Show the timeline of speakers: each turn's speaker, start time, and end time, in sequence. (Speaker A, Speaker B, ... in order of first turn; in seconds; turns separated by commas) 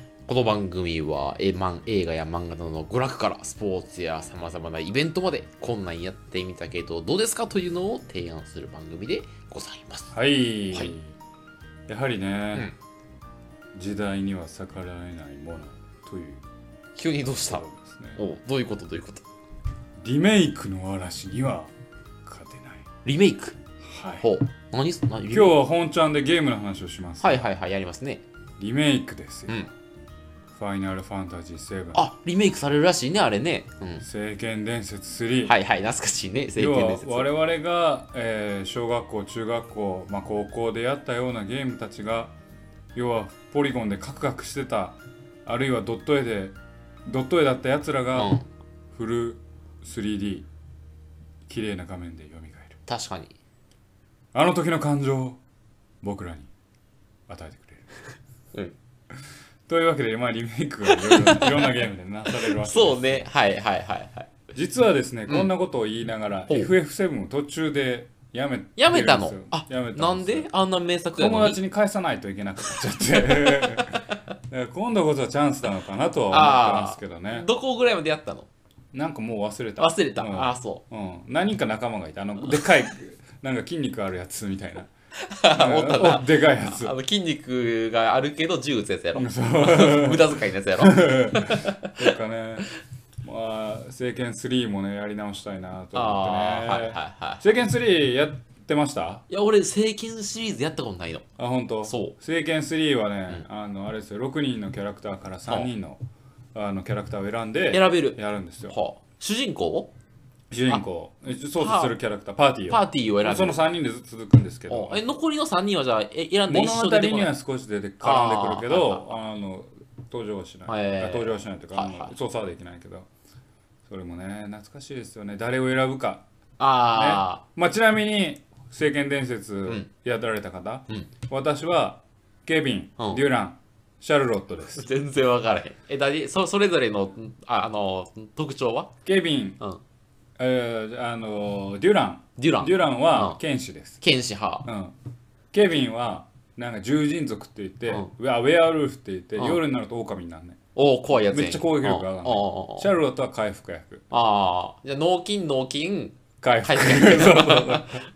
Speaker A: 0.3-10.1, Speaker B: 10.1-11.1, Speaker B: 11.9-12.7, Speaker B: 13.7-16.4, Speaker A: 16.9-17.6, Speaker B: 17.4-18.2, Speaker A: 18.1-19.2, Speaker B: 20.0-21.7, Speaker B: 22.2-22.8, Speaker A: 23.0-23.6, Speaker B: 23.8-24.3, Speaker A: 24.2-25.6, Speaker B: 25.3-27.4, Speaker A: 27.2-28.2, Speaker B: 28.6-29.6, Speaker B: 30.5-32.0, Speaker A: 31.9-34.0, Speaker B: 34.0-35.5, Speaker A: 35.4-37.2, Speaker B: 36.5-42.3, Speaker B: 42.9-48.3, Speaker A: 48.1-48.4, Speaker B: 48.9-50.5, Speaker B: 51.5-52.8, Speaker A: 52.9-53.3, Speaker B: 54.3-55.4, Speaker B: 56.0-56.5, Speaker B: 57.3-57.9, Speaker B: 59.7-63.2, Speaker A: 60.9-61.7, Speaker A: 62.3-64.3, Speaker B: 64.5-70.5, Speaker A: 68.8-71.6, Speaker B: 71.2-77.5, Speaker A: 72.9-74.2, Speaker A: 76.3-78.5, Speaker B: 78.9-84.9, Speaker A: 79.8-80.8, Speaker A: 85.2-92.1, Speaker B: 85.5-86.9, Speaker B: 89.1-92.7, Speaker B: 93.2-99.2, Speaker A: 95.9-97.4, Speaker A: 99.3-101.2, Speaker B: 101.4-106.0, Speaker A: 101.8-102.2, Speaker A: 105.4-105.7, Speaker B: 106.5-108.8, Speaker A: 107.7-109.9, Speaker B: 110.5-115.0, Speaker A: 111.5-112.0, Speaker A: 112.7-113.6, Speaker A: 114.7-117.3, Speaker B: 116.5-123.1, Speaker A: 118.0-119.0, Speaker A: 120.7-122.1, Speaker B: 123.9-126.2, Speaker A: 126.6-127.4, Speaker B: 126.9-134.8, Speaker A: 134.7-138.9, Speaker B: 139.0-139.6, Speaker B: 140.4-144.0, Speaker A: 142.4-143.4, Speaker A: 144.0-144.7, Speaker B: 144.6-144.9, Speaker B: 145.5-150.6, Speaker A: 150.7-152.9, Speaker B: 151.3-154.0, Speaker A: 154.1-158.0, Speaker B: 156.4-158.0